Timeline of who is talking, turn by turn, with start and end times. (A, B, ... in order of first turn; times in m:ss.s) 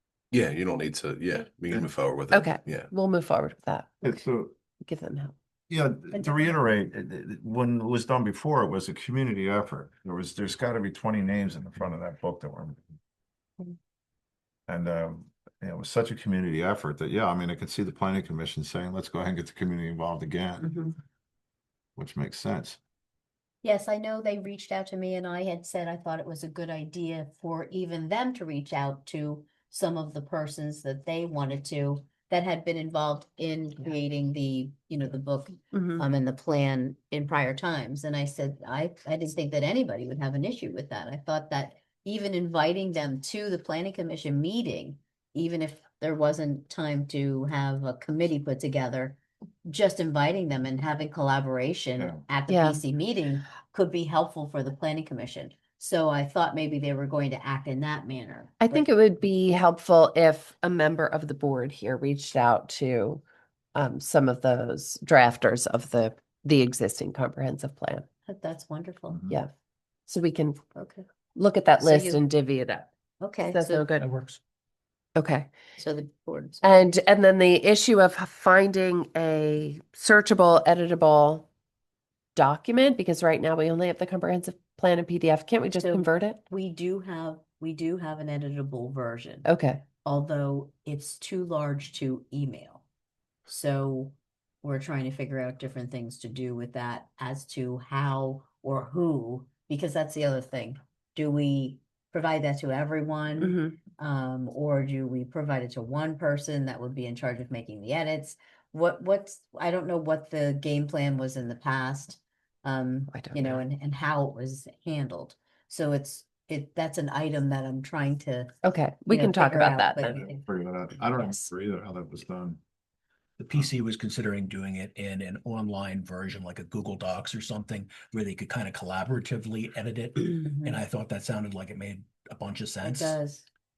0:00.3-0:02.9 A
0:02.3-0:04.2 B
0:04.0-0:04.5 C
0:04.8-0:05.3 B
0:05.7-0:12.8 C
0:06.1-0:06.5 D
0:14.7-0:20.8 C
0:22.0-0:22.8 C
0:23.6-0:58.9 D
0:35.7-0:36.0 B
0:52.5-0:52.8 B
0:58.6-1:08.0 B
1:08.2-1:09.2 D
1:09.1-1:09.4 C
1:10.1-1:10.6 B
1:10.7-1:11.0 D
1:11.3-1:12.9 B
1:11.8-1:12.2 D
1:13.2-1:13.9 D
1:13.5-1:14.1 B
1:14.0-1:14.4 E
1:15.2-1:15.5 B
1:15.8-1:16.9 D
1:16.6-1:21.5 B
1:22.3-1:26.4 B
1:25.7-1:29.5 D
1:29.4-1:29.8 B
1:30.0-1:32.8 D
1:33.5-1:58.6 D
1:43.4-1:43.8 B
1:53.1-1:53.6 B
1:58.6-2:00.2 B
1:59.1-2:00.4 D
2:00.0-2:02.6 C
2:03.4-2:13.2 E
2:10.5-2:10.8 D
2:12.8-2:13.5 D